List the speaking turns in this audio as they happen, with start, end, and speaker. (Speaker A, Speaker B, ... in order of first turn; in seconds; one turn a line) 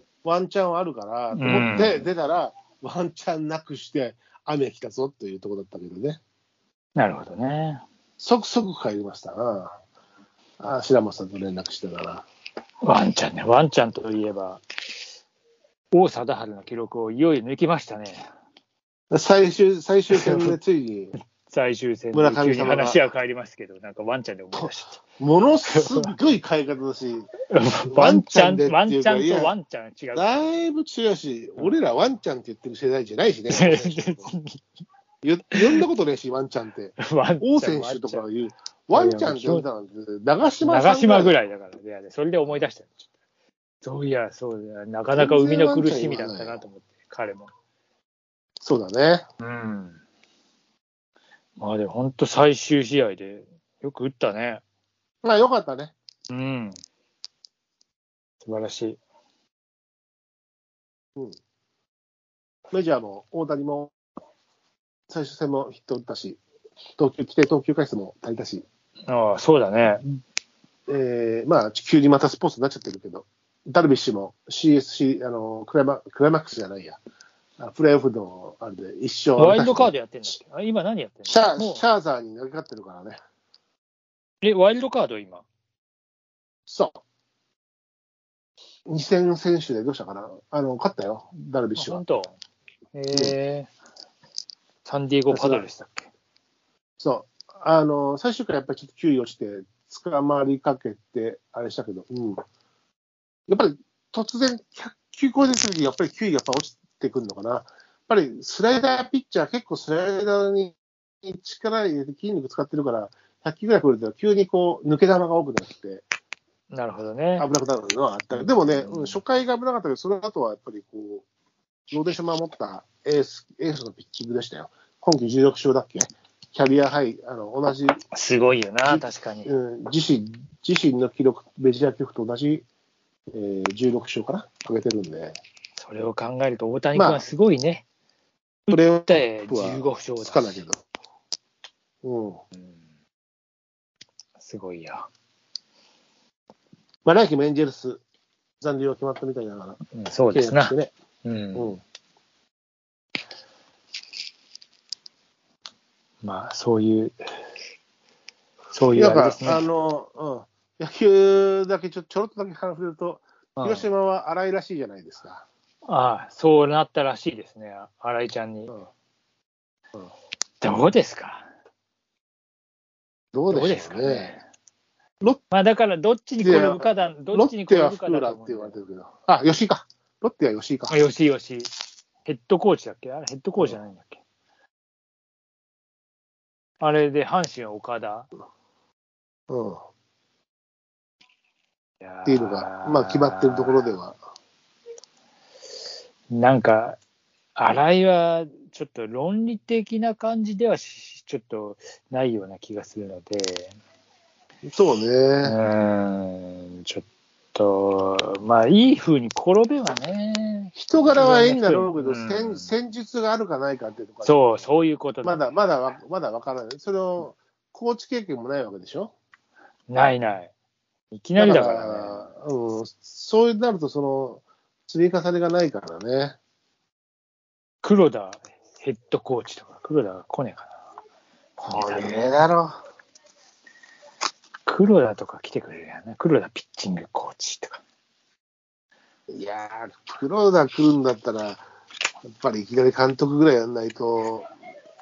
Speaker A: 0.2-6.2
Speaker B: 1.3-2.1
Speaker B: 7.0-7.8
Speaker A: 8.2-9.8
Speaker A: 10.6-12.3
Speaker B: 12.8-14.6
Speaker B: 15.9-18.3
Speaker A: 19.1-21.1
Speaker B: 20.1-20.6
Speaker B: 21.4-25.0
Speaker A: 22.1-23.0
Speaker A: 24.5-27.3
Speaker B: 25.7-26.1
Speaker B: 27.5-30.4
Speaker A: 27.9-29.5
Speaker A: 30.1-34.3
Speaker B: 33.5-34.6
Speaker A: 35.2-41.4
Speaker B: 35.5-35.8
Speaker B: 37.0-38.3
Speaker B: 38.9-39.7
Speaker B: 40.6-43.1
Speaker B: 43.8-47.5
Speaker A: 45.1-46.6
Speaker A: 48.6-49.3
Speaker B: 49.4-50.0
Speaker B: 51.6-54.6
Speaker A: 55.2-55.9
Speaker B: 56.3-56.8
Speaker B: 58.4-59.0
Speaker A: 62.7-63.9
Speaker A: 65.1-66.4
Speaker A: 67.0-68.7
Speaker B: 69.1-70.1
Speaker A: 70.9-77.0
Speaker A: 77.6-79.9
Speaker B: 79.4-81.9
Speaker A: 81.3-83.2
Speaker B: 84.4-85.4
Speaker A: 86.7-87.0
Speaker A: 88.9-92.0
Speaker B: 91.8-92.4
Speaker B: 92.9-93.7
Speaker B: 94.8-96.1
Speaker A: 95.3-95.7
Speaker A: 97.0-102.4
Speaker A: 103.5-116.0
Speaker B: 116.7-117.5
Speaker A: 117.4-121.2
Speaker B: 118.7-119.2
Speaker A: 121.9-128.0
Speaker B: 128.1-129.5
Speaker A: 128.8-132.7
Speaker A: 133.3-135.4
Speaker B: 135.8-137.8
Speaker A: 136.9-137.2
Speaker B: 138.7-140.6
Speaker A: 138.7-140.8
Speaker A: 142.0-142.4
Speaker B: 144.4-145.1
Speaker A: 147.1-148.0
Speaker A: 148.6-149.8
Speaker B: 149.9-151.8
Speaker A: 150.3-150.9
Speaker B: 156.2-157.2
Speaker B: 158.7-159.7
Speaker A: 158.9-165.4
Speaker B: 163.6-163.9
Speaker B: 165.9-168.7
Speaker B: 170.6-171.4
Speaker A: 173.3-174.4
Speaker B: 173.5-174.4
Speaker B: 175.5-178.8
Speaker A: 176.4-180.9
Speaker B: 180.9-181.7
Speaker B: 182.2-184.2
Speaker B: 186.8-188.3
Speaker A: 189.5-189.8
Speaker B: 192.0-193.8
Speaker A: 192.3-194.2
Speaker B: 196.3-197.0
Speaker B: 197.6-203.8
Speaker A: 204.7-205.6
Speaker B: 205.4-212.7
Speaker A: 210.8-214.4
Speaker B: 214.2-215.4
Speaker A: 215.2-219.1
Speaker B: 219.9-220.5
Speaker B: 221.1-222.3
Speaker A: 221.4-226.4
Speaker B: 227.8-230.8
Speaker B: 231.6-232.4
Speaker A: 231.7-232.8
Speaker B: 234.7-237.8
Speaker A: 239.3-241.7
Speaker A: 242.3-244.5